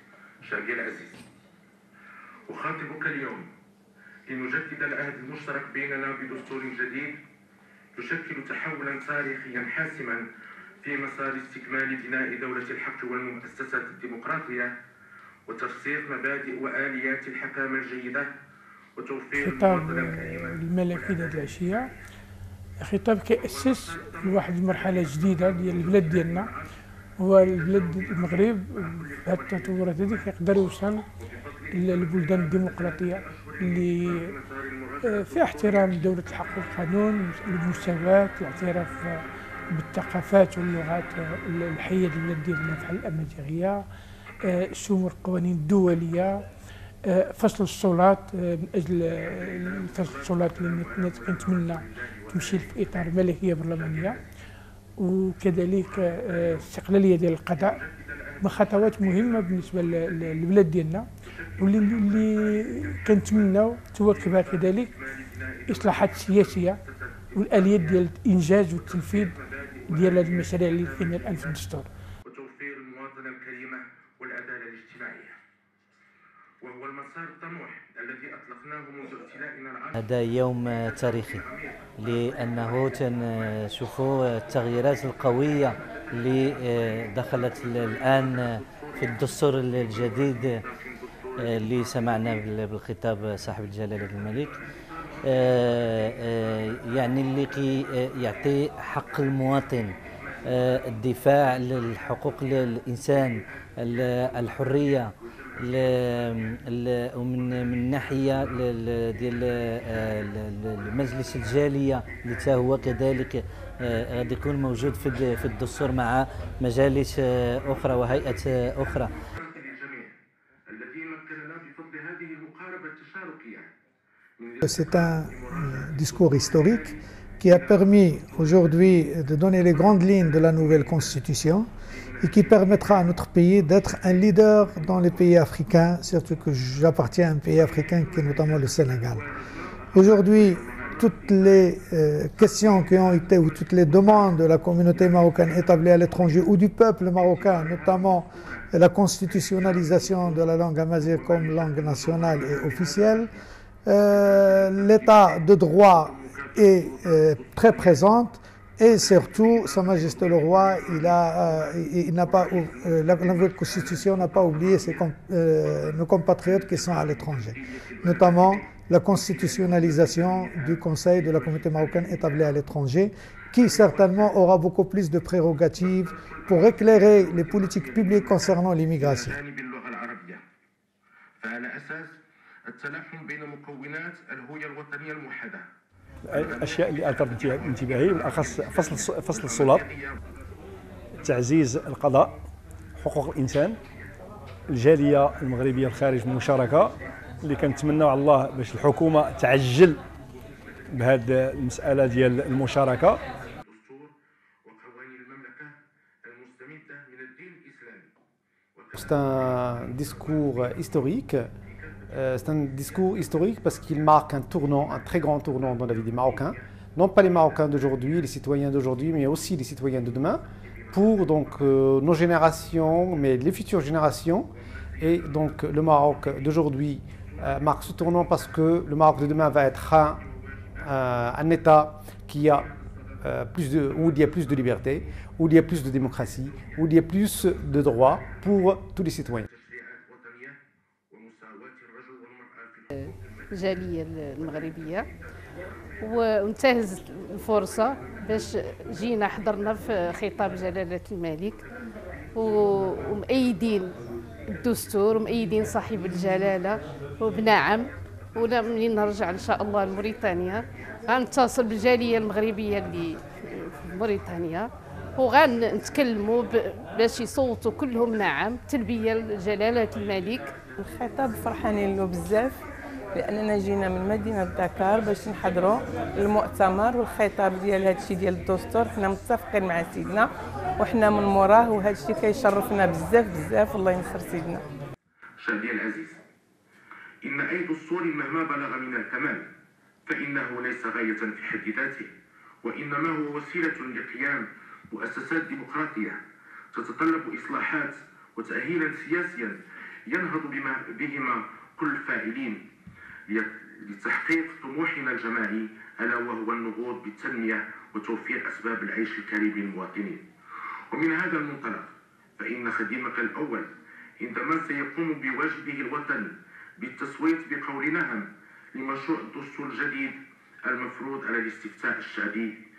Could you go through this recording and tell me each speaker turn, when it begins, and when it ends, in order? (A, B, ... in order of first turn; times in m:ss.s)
0:00.4-0:01.2 A
0:02.5-0:03.5 A
0:04.3-0:07.2 A
0:08.0-0:10.3 A
0:10.8-0:14.7 A
0:15.5-0:18.3 A
0:19.0-0:21.6 A
0:19.4-0:21.9 B
0:22.8-0:26.5 B
0:23.4-0:26.6 A
0:27.2-0:31.1 B
0:27.5-0:30.3 A
0:31.2-0:36.0 A
0:31.7-0:34.3 B
0:35.0-0:43.8 B
0:44.5-0:46.4 B
0:47.1-0:54.2 B
0:49.4-0:52.8 A
0:53.8-0:54.2 A
0:55.0-0:57.8 B
0:57.6-1:00.3 A
0:58.4-1:05.0 B
1:01.4-1:02.6 A
1:04.2-1:08.0 A
1:05.7-1:06.8 B
1:07.3-1:09.4 B
1:08.8-1:11.6 A
1:09.9-1:11.9 B
1:12.3-1:15.4 A
1:16.6-1:20.0 A
1:20.0-1:21.4 C
1:21.0-1:21.8 A
1:22.0-1:30.6 C
1:27.7-1:31.7 A
1:31.4-1:34.6 C
1:35.3-1:39.9 C
1:40.5-1:45.1 C
1:45.6-1:59.1 C
1:59.3-2:00.2 A
2:00.7-2:03.7 A
2:04.4-2:06.9 A
2:04.6-2:19.2 D
2:12.0-2:12.8 A
2:19.9-2:33.3 D
2:20.2-2:21.0 A
2:31.9-2:32.4 A
2:33.8-2:59.4 D
2:35.8-2:36.8 A
2:39.6-2:39.9 A
2:42.9-2:44.9 A
2:46.9-2:48.7 A
2:49.8-2:50.5 A
2:55.9-3:00.4 A
3:01.4-3:02.2 A
3:02.7-3:05.7 A
3:06.3-3:09.9 E
3:06.3-3:06.7 A
3:07.8-3:10.2 A
3:11.2-3:12.4 E
3:13.0-3:13.8 E
3:14.7-3:20.0 E
3:20.9-3:23.2 E
3:23.6-3:24.1 A
3:24.6-3:28.1 A
3:28.8-3:29.1 A
3:29.0-3:31.5 F
3:32.1-3:50.2 F
3:50.8-3:52.7 F
3:53.2-3:59.5 F
3:59.5-4:00.6 A
4:01.1-4:02.9 A
4:02.9-4:05.1 G
4:06.0-4:11.6 G
4:12.4-4:14.0 G
4:14.6-4:30.5 G
4:30.8-4:32.6 H
4:33.1-4:44.6 H
4:45.4-4:46.2 A
4:47.2-4:49.5 A
4:50.1-4:52.1 A
4:52.6-4:56.2 A
4:56.7-5:02.6 A
5:03.3-5:10.2 A
5:10.9-5:22.6 A